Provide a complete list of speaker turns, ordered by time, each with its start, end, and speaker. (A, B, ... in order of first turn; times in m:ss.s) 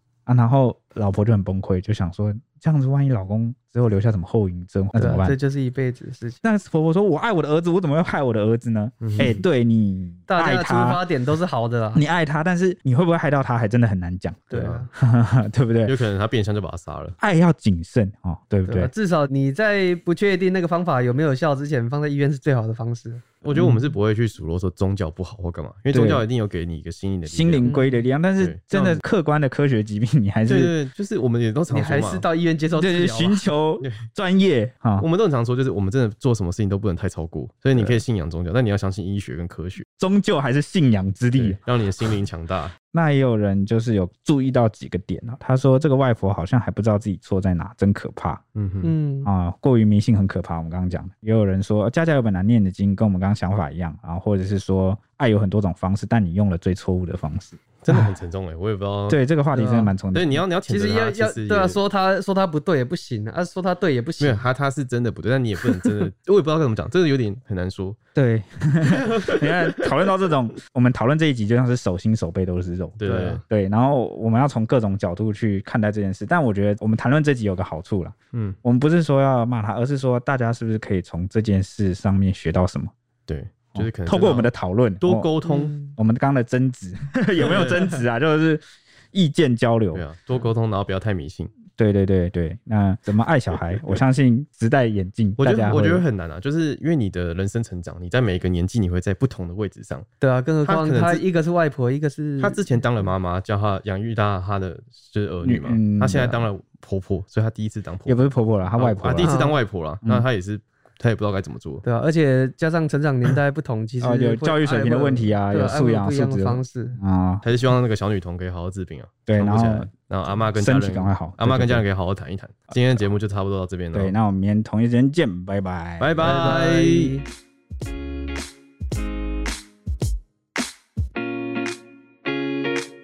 0:00.3-0:05.4 A
0:04.9-0:06.4 B
0:06.4-0:11.0 A
0:09.0-0:09.4 C
0:10.3-0:12.0 B
0:11.9-0:16.0 A
0:14.5-0:14.9 B
0:14.5-0:14.9 C
0:15.9-0:17.2 C
0:17.2-0:18.9 A
0:18.7-0:23.2 B
0:23.4-0:27.7 C
0:23.5-0:23.9 A
0:25.9-0:26.2 A
0:27.2-0:30.7 A
0:27.6-0:28.1 B
0:28.4-0:29.0 C
0:30.4-0:32.3 C
0:31.7-0:33.5 B
0:32.8-0:35.1 A
0:35.0-0:39.9 C
0:37.7-0:38.0 A
0:40.0-0:41.6 A
0:41.3-0:42.8 C
0:42.9-0:48.4 A
0:48.6-0:49.0 C
0:48.8-0:49.3 B
0:49.2-0:58.1 A
0:57.8-0:59.2 C
0:59.1-1:00.4 A
0:59.5-0:59.9 B
1:00.1-1:01.8 C
1:00.7-1:04.4 B
1:04.2-1:08.0 C
1:08.2-1:22.9 A
1:09.2-1:09.5 C
1:13.0-1:13.4 C
1:13.0-1:13.4 B
1:23.3-1:25.8 C
1:23.8-1:28.6 A
1:25.5-1:26.0 B
1:27.4-1:27.9 C
1:29.1-1:30.1 A
1:29.9-1:31.5 C
1:31.8-1:36.0 A
1:35.4-1:40.1 C
1:40.2-1:43.1 B
1:40.6-1:41.2 C
1:42.4-1:51.8 C
1:45.4-1:46.5 A
1:48.0-1:49.4 A
1:49.2-1:49.6 B
1:51.8-1:57.0 B
1:54.0-1:57.4 A
1:57.4-2:04.1 C
1:59.3-1:59.9 A
2:00.5-2:01.9 A
2:02.7-2:03.1 A
2:03.9-2:06.3 A
2:06.0-2:07.1 C
2:06.2-2:07.2 B